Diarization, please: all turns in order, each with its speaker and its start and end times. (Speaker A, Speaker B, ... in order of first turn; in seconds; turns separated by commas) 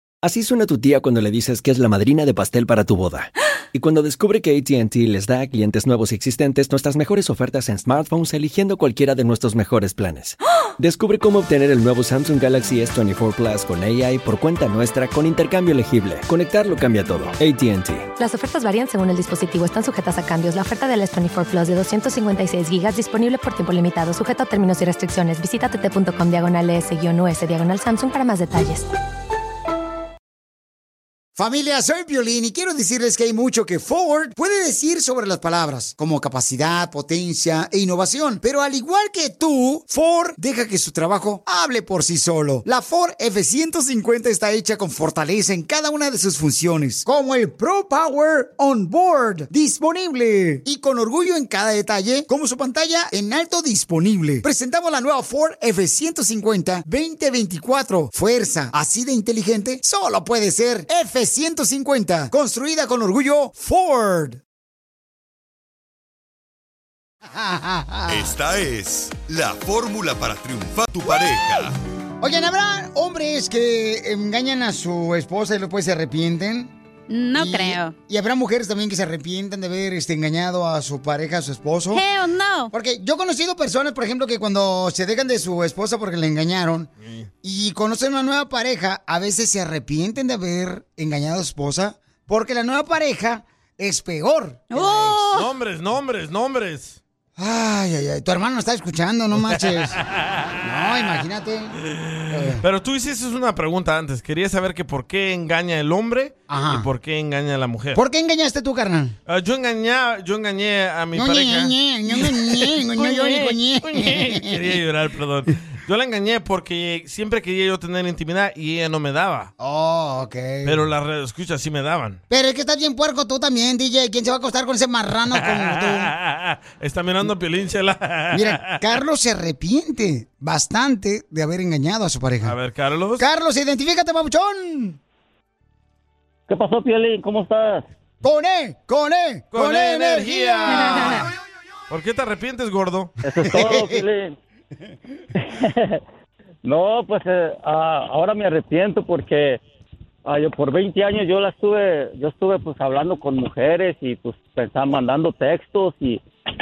Speaker A: 0.2-18.1, Speaker B: 18.2-28.9, Speaker C: 31.4-64.4, Speaker C: 67.2-68.3, Speaker D: 68.1-71.8, Speaker C: 72.2-76.7, Speaker E: 77.1-77.9, Speaker C: 77.3-82.0, Speaker E: 81.9-82.7, Speaker C: 82.7-86.9, Speaker F: 87.0-87.3, Speaker C: 87.4-95.3, Speaker E: 94.7-95.5, Speaker F: 95.3-97.0, Speaker C: 97.4-100.0, Speaker F: 100.1-100.5, Speaker C: 100.6-101.8, Speaker F: 102.0-108.0, Speaker C: 102.3-102.6, Speaker C: 106.5-106.9, Speaker C: 107.9-109.2, Speaker F: 109.3-119.5, Speaker C: 111.2-114.7, Speaker C: 119.6-120.9, Speaker F: 120.7-122.2, Speaker C: 122.3-126.1, Speaker F: 125.4-128.8, Speaker C: 128.3-132.6, Speaker F: 132.4-133.2, Speaker C: 133.2-135.0, Speaker G: 136.5-137.8, Speaker C: 138.2-141.3, Speaker F: 139.5-141.3, Speaker F: 141.9-143.1, Speaker G: 143.2-144.3, Speaker C: 143.5-144.0, Speaker G: 145.4-146.0, Speaker G: 146.6-149.6, Speaker G: 150.2-156.2